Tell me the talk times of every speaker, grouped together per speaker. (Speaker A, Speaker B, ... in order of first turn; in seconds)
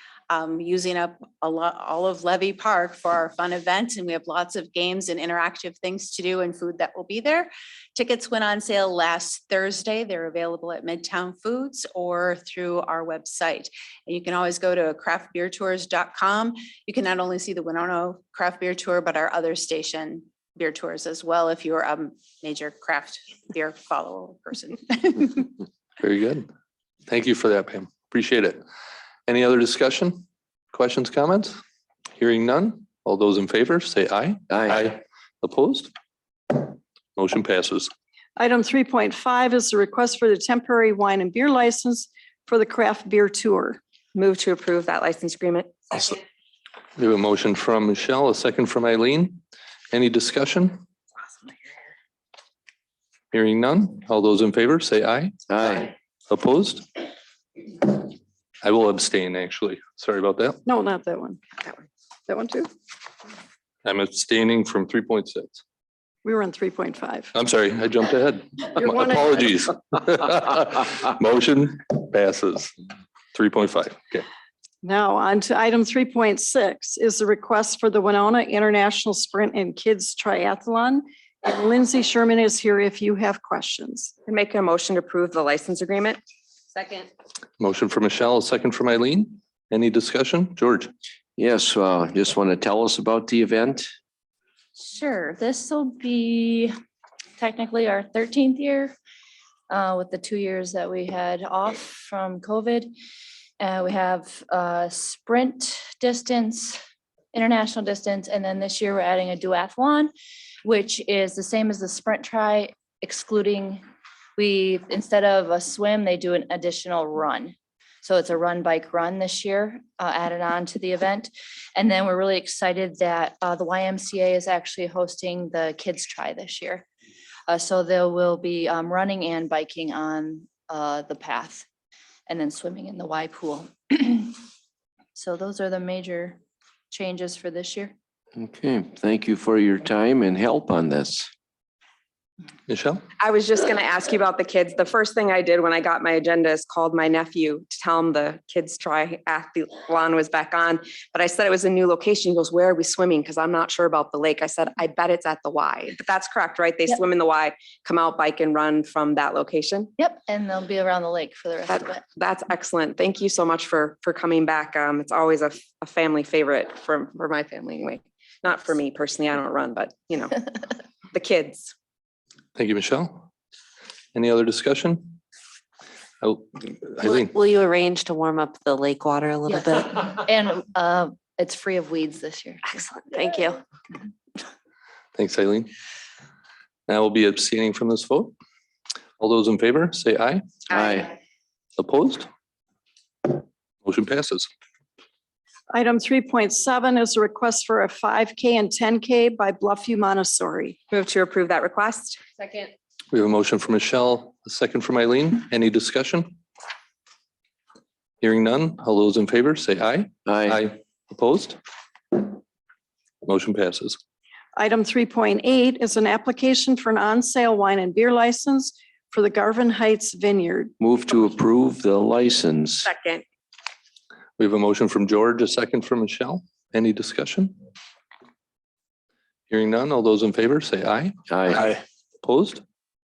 Speaker A: 0.3-25.5
Speaker B: 26.0-26.5, 27.1-28.6, 29.3-31.6, 32.2-35.9, 36.5-37.9, 47.0-50.8, 53.3-57.0, 57.7-58.1, 58.6-60.6, 63.9-65.6, 67.3-72.7, 73.3-74.3, 87.6-90.9, 142.7-143.0, 172.6-173.3, 174.1-175.2, 176.2-177.3, 185.2-185.7, 186.9-188.3, 189.2-190.4, 191.8-192.3, 193.2-194.5, 203.1-206.4, 208.2-211.6, 213.2-214.0, 224.4-227.6, 229.5-231.6, 232.2-232.6
Speaker C: 34.5-34.8, 55.5-55.9, 91.4-93.9, 138.4-141.3, 190.7-191.1, 210.3-210.6, 220.8-222.9, 231.3-231.6
Speaker D: 38.4-43.8, 60.6-61.4, 62.3-62.7, 66.2-67.3, 68.8-69.5, 74.8-84.1, 195.7-200.8, 214.6-220.7
Speaker E: 44.1-46.2, 84.3-86.2, 86.8-87.1, 143.2-159.9, 161.7-170.6, 171.1-171.7, 200.9-202.7, 222.8-223.2
Speaker F: 94.8-96.7, 97.4-99.0, 99.7-102.9, 103.6-106.8, 107.3-110.1, 110.6-113.8, 114.4-126.9, 127.5-131.7, 132.3-134.4, 135.2-136.4, 136.9-137.9, 160.0-162.0, 179.5-182.7
Speaker G: 177.0-180.0, 182.7-183.6